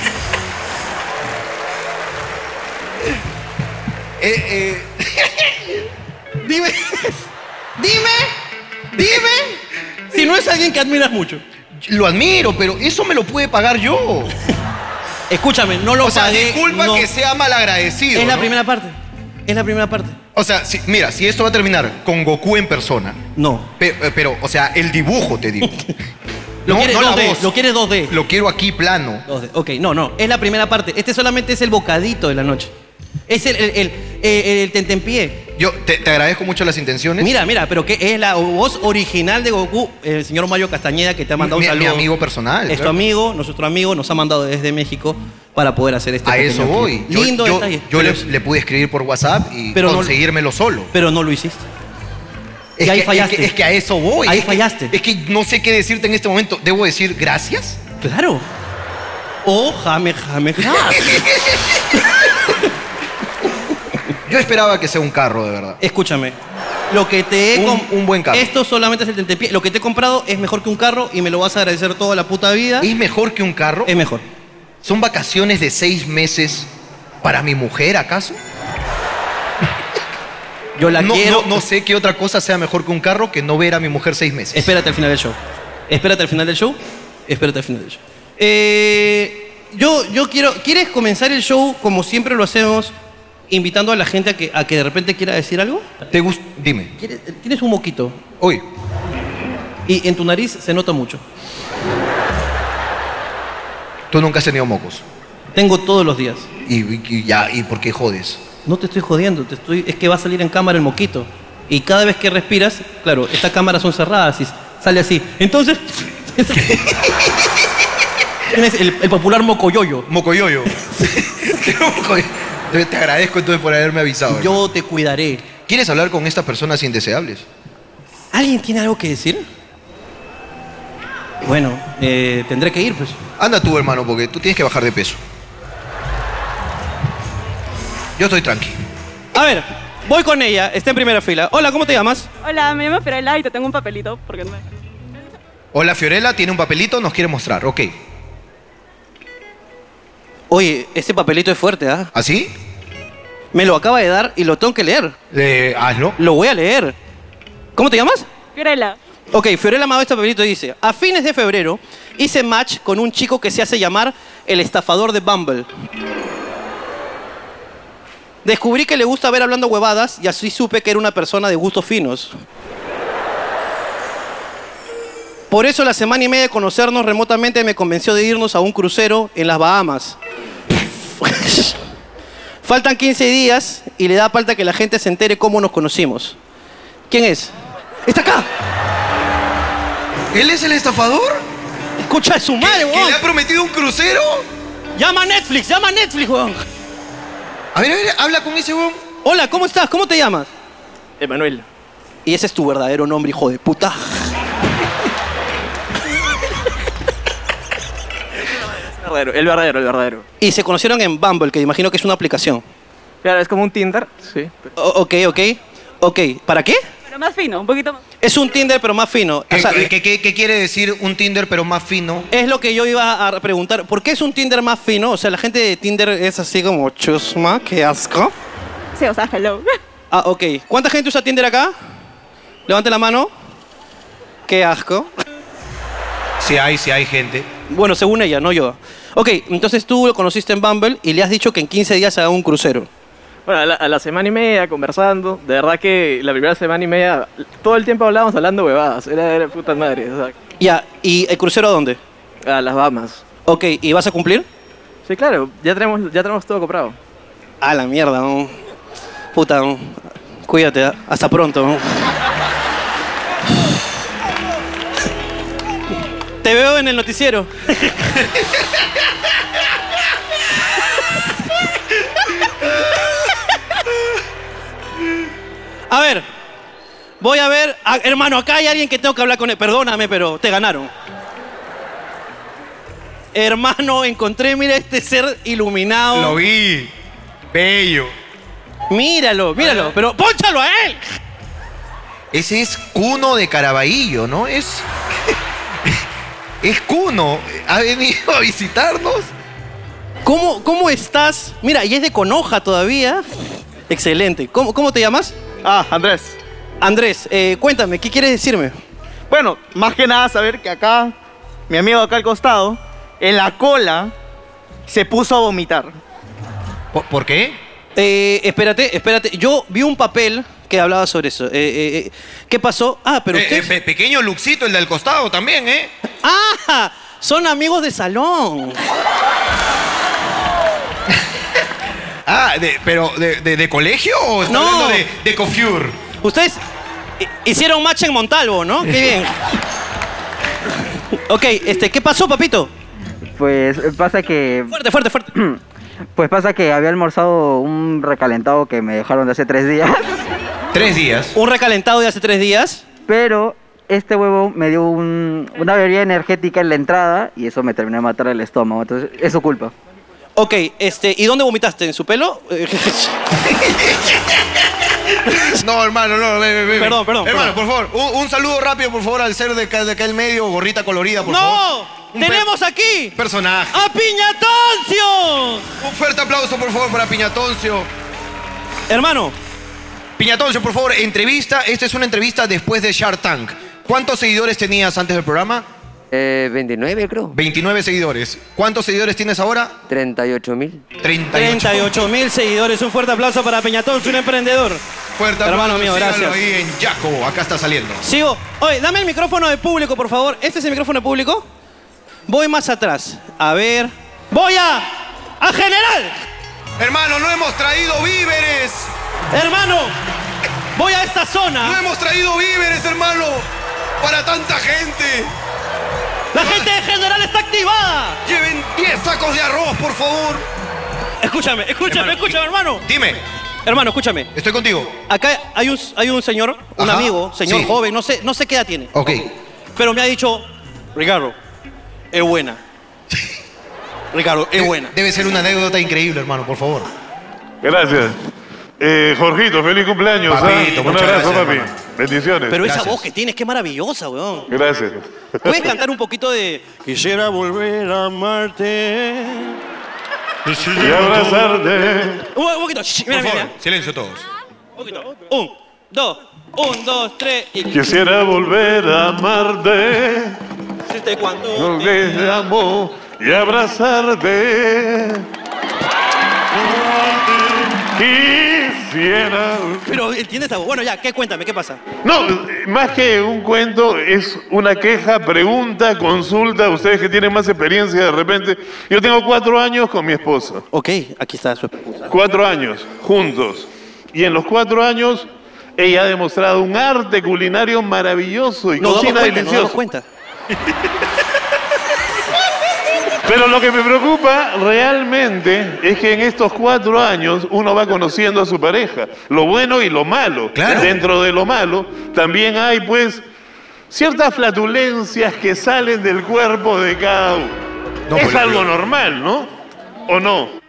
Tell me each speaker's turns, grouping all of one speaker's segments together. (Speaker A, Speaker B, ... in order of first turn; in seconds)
Speaker A: 4.2-5.7, 11.8-14.3, 16.0-18.5, 20.4-23.2, 23.8-25.7, 26.7-27.5, 28.1-29.2, 35.5-37.3, 41.4-42.9, 46.2-50.9, 52.8-57.8, 60.7-61.8, 64.2-65.8, 67.5-68.5, 72.8-73.9, 74.8-76.7, 77.2-78.4, 80.9-84.7, 96.1-96.9, 98.4-98.7, 104.1-105.0, 106.7-108.4, 116.6-117.1, 120.1-124.6, 125.7-127.4, 133.4-135.2, 138.2-138.8, 145.7-147.9, 152.1-152.5, 155.3-156.2, 190.3-191.4, 192.6-194.5, 197.7-199.0, 219.5-222.3, 236.4-237.5, 286.1-286.9, 287.5-288.1, 292.3-294.9, 296.6-299.3, 316.9-317.6, 323.3-325.9, 332.3-336.0, 350.7-351.3, 365.4-371.6, 372.1-372.5, 373.2-373.8, 375.8-377.9, 380.2-385.7, 387.3-389.8, 391.0-392.1, 395.2-398.0, 406.8-408.9, 411.6-413.4, 414.0-415.3, 416.4-416.6, 418.3-420.4, 421.9-423.2, 424.3-424.9, 426.8-427.7, 428.9-429.3, 434.6-436.9, 440.3-441.7, 442.6-443.0, 453.1-454.3, 500.6-501.0, 508.1-508.7
Speaker B: 6.4-7.2, 7.8-8.3, 8.9-9.6, 10.1-11.4, 15.3-17.1, 18.1-18.9, 19.5-20.2, 23.4-23.7, 26.7-28.1, 29.3-32.7, 33.3-35.4, 37.2-42.1, 42.7-48.3, 49.7-50.1, 50.9-51.7, 52.8-53.5, 54.2-54.9, 58.0-58.5, 59.4-61.3, 65.8-66.4, 66.9-72.9, 73.9-74.2, 80.8-81.7, 84.5-85.4, 85.9-92.9, 93.5-95.8, 97.0-98.2, 99.9-101.2, 105.5-106.5, 108.7-116.7, 118.5-120.1, 124.3-125.5, 128.3-129.4, 131.4-133.2, 139.3-142.3, 150.5-152.1, 153.5-155.2, 156.2-156.9, 157.8-158.2, 159.3-165.7, 168.4-172.3, 175.5-180.2, 181.2-181.8, 182.6-186.4, 187.1-187.5, 188.1-188.5, 192.0-193.2, 194.9-196.6, 199.2-200.5, 202.2-204.2, 210.4-212.6, 214.8-216.8, 218.2-219.9, 222.3-228.3, 230.1-231.7, 232.7-233.3, 234.5-235.1, 237.7-242.9, 250.6-252.0, 253.4-254.5, 257.6-258.6, 259.3-262.1, 266.4-268.3, 275.9-276.3, 277.2-280.9, 283.3-286.4, 288.9-291.0, 300.2-303.2, 303.9-305.3, 306.8-308.8, 317.9-323.7, 326.2-328.8, 334.5-335.1, 336.2-336.6, 337.2-339.4, 341.1-342.7, 344.7-345.3, 351.3-352.8, 360.4-363.2, 366.8-367.6, 371.2-373.2, 373.7-375.7, 378.9-379.4, 391.3-394.8, 395.4-396.4, 398.0-401.4, 402.3-406.1, 409.3-410.0, 410.8-411.8, 416.3-418.2, 421.2-422.8, 423.7-424.3, 425.1-429.1, 429.8-431.4, 432.1-432.6, 434.1-434.9, 442.5-444.5, 445.4-449.6, 452.3-453.5, 454.8-458.0, 460.9-462.0, 469.8-471.8, 480.7-482.1, 488.8-490.1
Speaker C: 142.4-144.6, 158.6-159.0, 217.1-218.0, 228.9-229.7
Speaker D: 201.2-201.7, 208.9-210.2, 213.2-214.7, 243.5-250.4, 252.4-253.2, 255.1-257.0
Speaker E: 305.6-306.4, 309.3-311.1, 311.7-314.1, 314.9-316.0
Speaker F: 343.4-344.8, 345.3-345.6, 346.1-350.2, 353.1-359.7
Speaker G: 386.1-387.3, 389.9-390.8
Speaker H: 437.6-438.2, 438.8-442.6, 444.5-445.1, 450.8-452.2, 457.7-460.4, 461.6-465.3, 466.7-469.9, 472.0-480.7, 482.1-489.8, 493.3-503.2, 503.9-507.6, 508.1-509.5, 510.1-510.5